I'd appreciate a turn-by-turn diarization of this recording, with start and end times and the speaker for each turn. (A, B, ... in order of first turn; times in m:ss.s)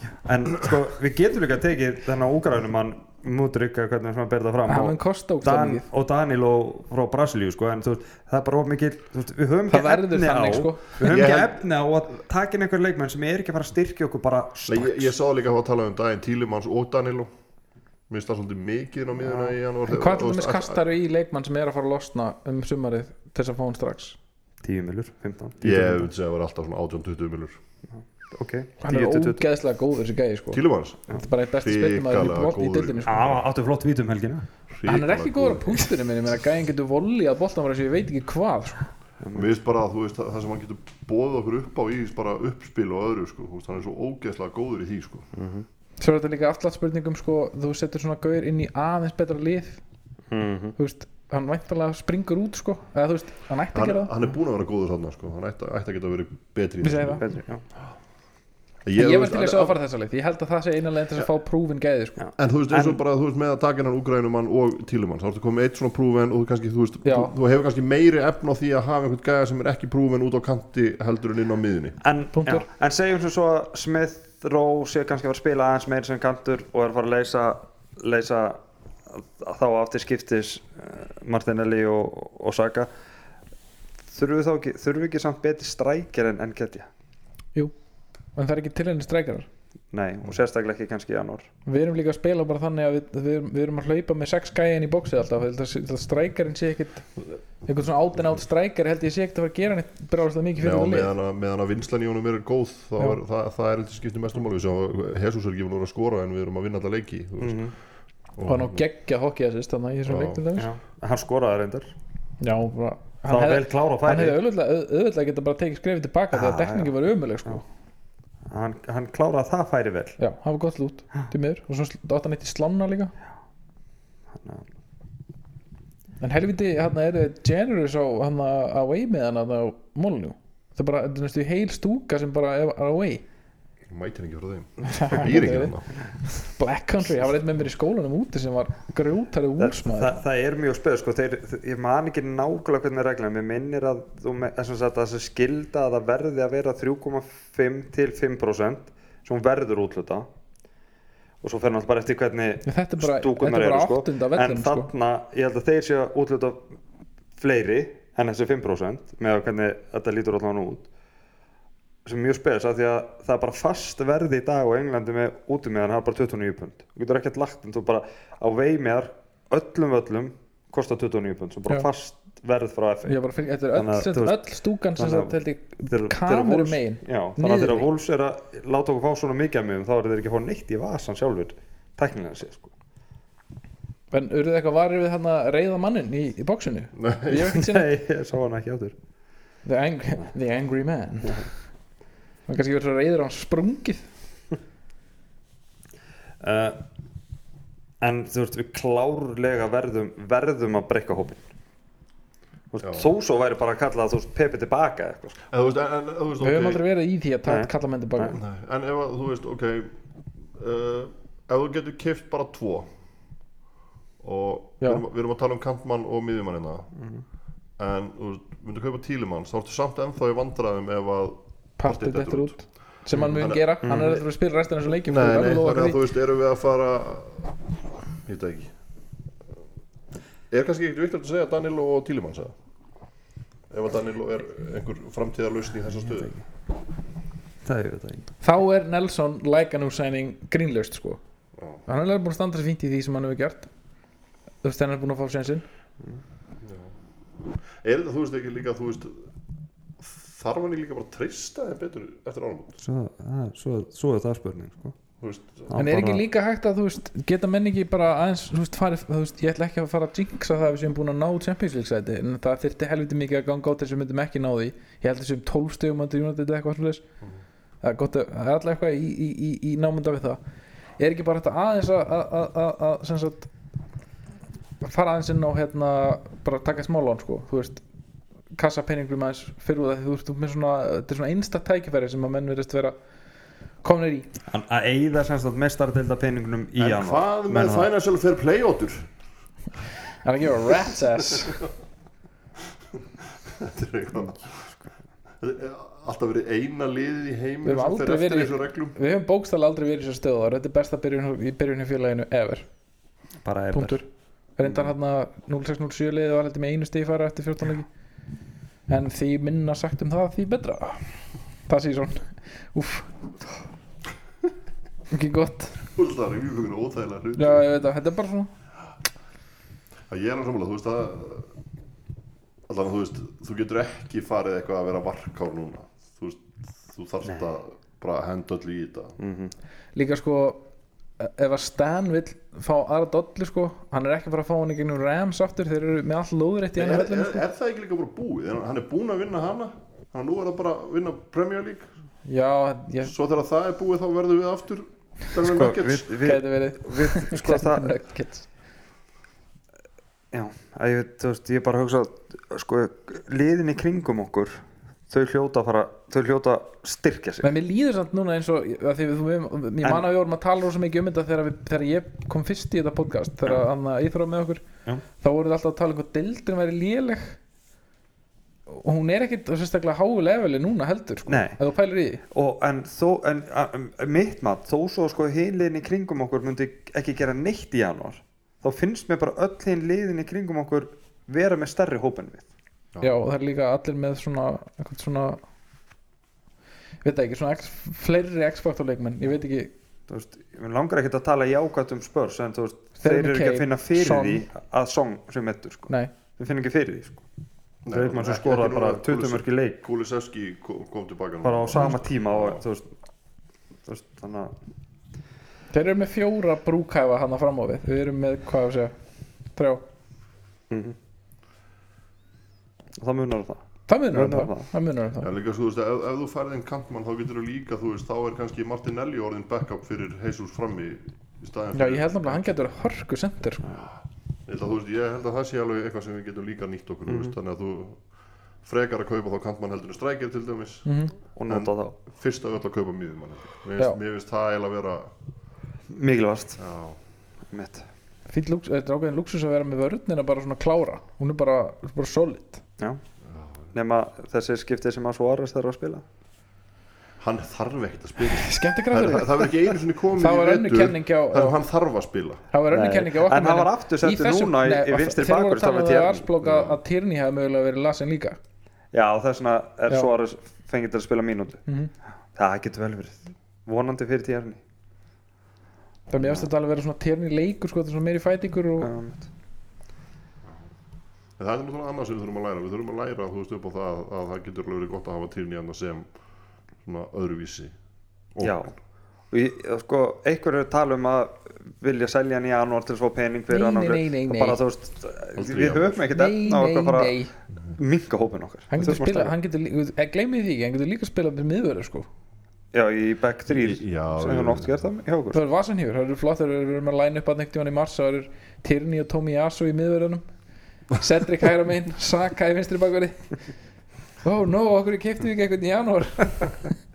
0:00.2-0:15.1 A
0:04.7-0:05.8 B
0:09.7-0:11.0 B
0:11.0-0:11.6 C
0:14.7-0:17.3 C
0:18.1-0:20.8 C
0:19.9-0:24.2 B
0:24.6-0:26.0 A
0:25.6-0:27.6 C
0:27.9-0:29.4 A
0:28.8-0:33.1 B
0:30.5-0:33.4 C
0:33.0-0:34.5 A
0:34.7-0:35.9 C
0:34.8-0:38.9 B
0:39.2-0:39.5 A
0:39.3-0:45.3 C
0:45.3-0:45.6 A
0:46.0-0:49.8 B
0:50.3-0:50.8 A
0:50.8-0:54.1 B
0:53.7-0:57.2 C
0:56.8-0:57.3 B
0:57.2-0:57.6 A
0:58.8-0:59.8 C
0:59.0-1:02.2 B
1:02.2-1:03.0 A
1:02.4-1:12.0 C
1:07.0-1:07.3 B
1:12.0-1:22.9 A
1:12.3-1:12.6 B
1:24.1-1:26.9 A
1:28.3-1:29.5 B
1:29.9-1:31.5 A
1:31.6-1:41.1 B
1:40.6-1:47.6 C
1:47.4-1:47.7 A
1:48.4-1:48.8 C
1:48.4-1:50.7 B
1:50.1-1:50.4 C
1:50.6-1:51.9 A
1:52.4-1:57.6 B
1:53.3-1:54.4 A
1:56.3-1:56.9 A
1:58.5-2:00.2 A
2:00.2-2:03.1 B
2:04.4-2:04.6 A
2:06.2-2:13.2 B
2:13.9-2:15.9 C
2:14.8-2:20.2 B
2:19.6-2:30.3 A
2:31.4-2:36.6 A
2:32.6-2:34.9 B
2:37.4-2:40.9 A
2:42.0-2:53.2 A
2:53.0-2:57.9 B
2:53.7-2:55.3 A
2:55.8-3:02.7 A
3:04.1-3:07.9 B
3:06.9-3:07.5 C
3:07.5-3:08.9 A
3:09.6-3:11.5 B
3:12.5-3:14.1 B
3:16.4-3:16.8 A
3:18.0-3:21.4 A
3:22.7-3:25.4 A
3:22.8-3:23.1 C
3:25.5-3:26.8 C
3:26.4-3:28.4 B
3:27.4-3:28.4 A
3:28.3-3:29.9 C
3:30.5-3:32.9 C
3:34.2-3:36.9 C
3:37.8-3:43.8 C
3:41.8-3:46.0 B
3:43.8-3:44.2 A
3:45.1-3:47.5 C
3:48.2-3:48.7 C
3:50.5-3:52.5 C
3:53.7-3:56.4 C
3:57.6-3:58.3 A
3:58.4-4:01.2 B
4:01.9-4:03.7 B
4:04.6-4:05.6 B
4:06.6-4:06.9 C
4:07.8-4:09.3 C
4:10.0-4:12.8 C
4:12.8-4:15.0 A
4:15.2-4:15.8 C
4:15.7-4:16.2 A
4:15.7-4:27.0 B
4:27.8-4:30.4 B
4:31.0-4:33.5 B
4:34.8-4:37.8 B
4:38.5-4:43.0 B
4:43.8-4:44.3 B
4:44.5-4:47.9 A
4:46.8-4:49.1 C
4:50.2-4:51.6 B
4:52.9-4:54.7 C
4:55.4-4:59.0 C
4:57.6-5:02.7 B
5:03.4-5:04.0 A
5:03.7-5:04.0 B
5:04.6-5:07.9 B
5:08.9-5:11.1 B
5:11.7-5:13.1 B
5:15.1-5:15.8 B
5:15.9-5:17.6 C
5:17.4-5:18.5 B
5:20.1-5:21.5 C
5:22.7-5:29.2 C
5:29.2-5:29.5 A
5:29.9-5:30.6 B
5:31.2-5:37.4 B
5:36.8-5:41.9 C
5:42.2-5:43.1 B
5:43.0-5:46.1 C
5:45.4-5:48.0 A
5:46.2-5:48.5 B
5:50.3-5:57.5 A
5:57.4-6:04.6 B
6:05.2-6:07.4 B
6:08.7-6:12.2 B
6:11.3-6:11.6 A
6:12.3-6:22.5 A
6:23.0-6:25.4 B
6:27.0-6:29.7 B
6:30.1-6:37.2 A
6:33.0-6:34.4 B
6:37.8-6:42.6 C
6:37.9-6:39.8 A
6:41.4-6:42.9 A
6:43.8-6:44.5 A
6:45.7-6:48.9 B
6:49.5-6:49.8 B
6:50.7-6:51.0 A
6:53.0-6:54.7 A
6:53.9-6:55.3 B
6:55.2-7:02.6 C
7:01.7-7:03.6 B
7:04.4-7:08.0 C
7:07.1-7:07.3 A
7:08.6-7:10.9 C
7:10.8-7:11.1 B
7:11.4-7:12.0 A
7:11.5-7:15.1 C
7:15.9-7:16.6 A
7:16.6-7:17.0 C
7:17.5-7:17.8 A
7:18.3-7:22.6 B
7:23.2-7:23.7 C
7:23.7-7:26.0 A
7:27.2-7:32.4 C
7:28.2-7:31.6 B
7:32.5-7:38.4 B
7:32.7-7:36.3 A
7:36.4-7:36.8 C
7:38.9-7:41.6 A
7:42.4-7:44.6 A
7:46.1-7:48.9 B
7:46.2-7:46.5 A
7:48.8-7:49.3 A
7:51.4-7:56.1 C
7:56.8-7:57.7 C
7:58.3-7:58.6 C
7:58.4-7:58.7 A
7:59.3-8:07.2 A
8:03.5-8:04.6 B
8:05.4-8:06.0 C
8:06.1-8:07.3 B
8:07.8-8:09.3 A
8:08.7-8:12.1 B
8:12.7-8:15.4 A
8:13.5-8:14.8 C
8:15.3-8:20.2 B
8:20.9-8:23.3 B
8:24.2-8:26.7 B